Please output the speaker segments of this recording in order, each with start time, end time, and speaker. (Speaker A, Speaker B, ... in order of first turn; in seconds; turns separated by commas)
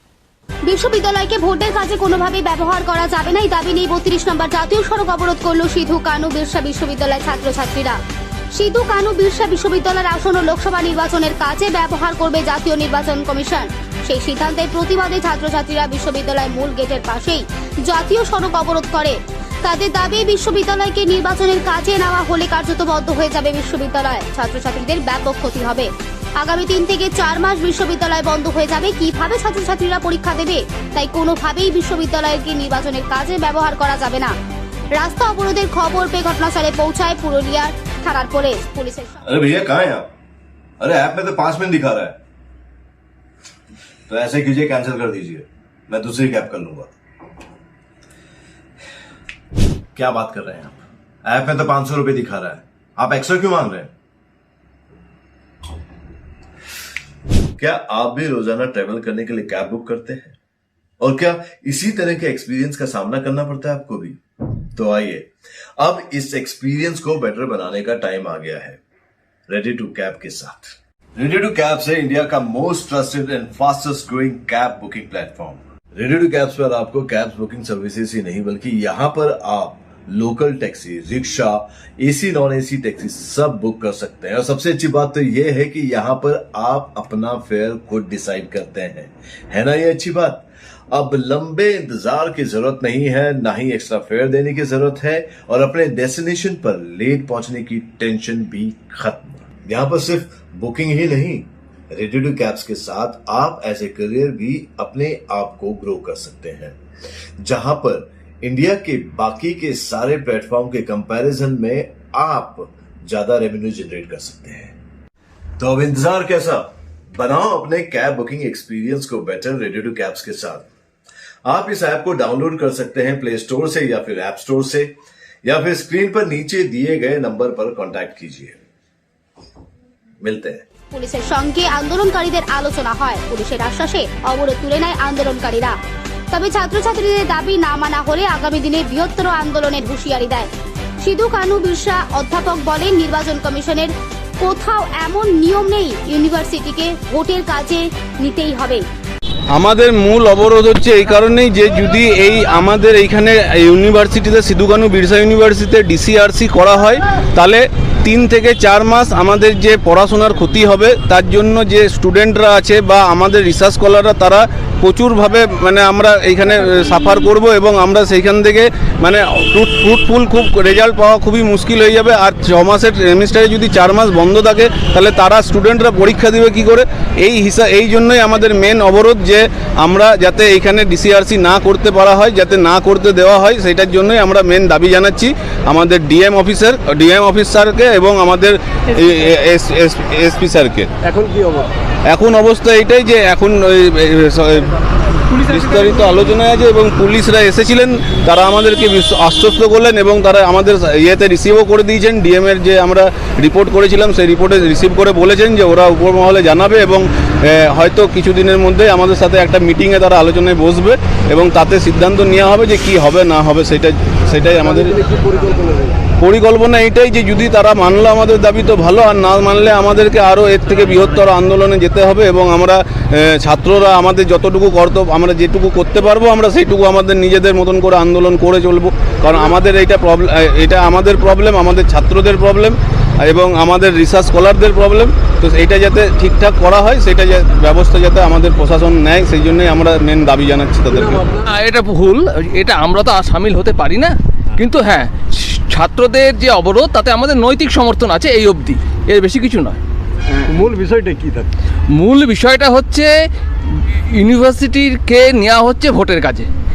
Speaker A: 0.6-8.0, Speaker A: 8.5-34.4, Speaker A: 34.9-39.2, Speaker B: 39.2-40.1, Speaker B: 40.8-42.2, Speaker B: 44.1-46.9, Speaker B: 49.9-53.9, Speaker B: 57.6-60.4, Speaker B: 61.0-64.2, Speaker B: 64.7-68.8, Speaker B: 69.5-106.8, Speaker B: 107.4-114.7, Speaker B: 115.6-120.7, Speaker B: 121.4-124.9, Speaker B: 125.4-128.6, Speaker B: 130.2-130.7, Speaker A: 130.9-135.8, Speaker A: 136.3-148.8, Speaker C: 149.5-190.9, Speaker D: 191.1-191.6, Speaker C: 192.1-194.7, Speaker C: 195.3-215.0, Speaker D: 215.4-215.7, Speaker C: 216.2-241.2, Speaker E: 241.4-249.8, Speaker D: 250.5-251.5, Speaker E: 251.9-253.1, Speaker E: 253.6-256.5